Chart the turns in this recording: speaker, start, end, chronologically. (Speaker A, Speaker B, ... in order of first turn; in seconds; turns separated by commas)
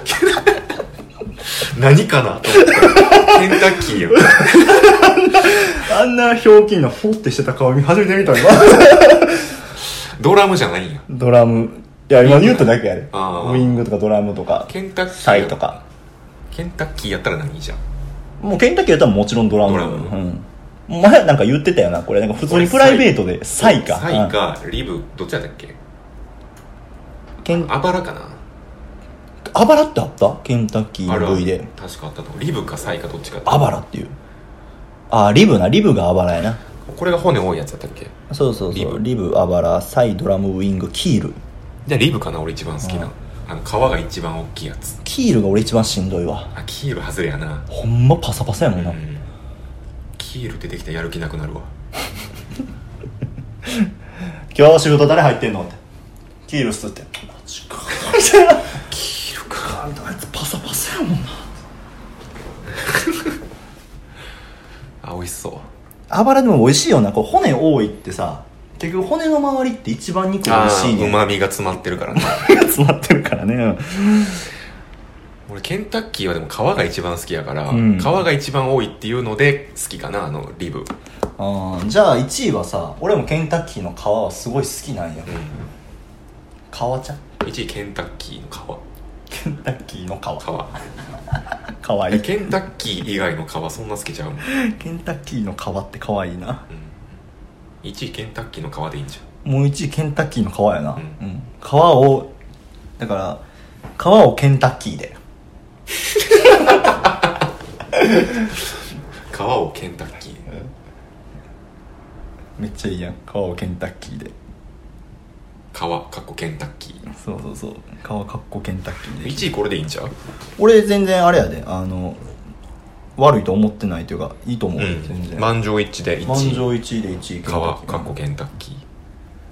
Speaker A: 1.4-4.8, Speaker B: 2.6-9.5, Speaker A: 9.8-11.1, Speaker B: 11.1-15.8, Speaker A: 12.2-13.8, Speaker A: 14.7-15.8, Speaker A: 16.5-17.8, Speaker B: 18.4-24.3, Speaker A: 19.6-20.1, Speaker A: 22.4-25.8, Speaker B: 27.4-27.7, Speaker A: 27.5-28.4, Speaker B: 29.5-31.7, Speaker A: 31.1-33.7, Speaker B: 33.5-34.1, Speaker B: 35.1-36.6, Speaker A: 36.8-38.1, Speaker B: 38.3-41.4, Speaker A: 38.7-39.0, Speaker A: 41.8-45.0, Speaker B: 42.8-43.1, Speaker B: 45.0-46.5, Speaker A: 46.5-47.7, Speaker B: 47.7-49.0, Speaker A: 48.7-49.2, Speaker A: 50.2-51.7, Speaker B: 54.5-55.8, Speaker B: 56.5-61.5, Speaker A: 65.0-65.7, Speaker B: 66.1-71.2, Speaker A: 70.4-72.6, Speaker B: 72.1-74.5, Speaker A: 75.5-80.9, Speaker B: 77.7-78.2, Speaker B: 81.4-85.4, Speaker A: 85.3-85.6, Speaker B: 86.7-87.2, Speaker A: 87.4-88.8, Speaker B: 89.3-90.5, Speaker A: 90.4-90.7, Speaker B: 91.8-92.3, Speaker A: 92.1-94.5, Speaker B: 94.4-96.7, Speaker A: 96.7-97.0, Speaker A: 97.8-99.2, Speaker B: 99.4-102.3, Speaker B: 103.0-103.4, Speaker B: 104.0-105.2, Speaker A: 109.3-110.5, Speaker B: 112.6-114.3, Speaker A: 115.7-117.0, Speaker B: 117.1-119.5, Speaker A: 119.2-120.1, Speaker B: 120.6-122.2, Speaker B: 123.2-125.5, Speaker A: 124.8-126.7, Speaker B: 126.2-128.1, Speaker A: 127.4-128.8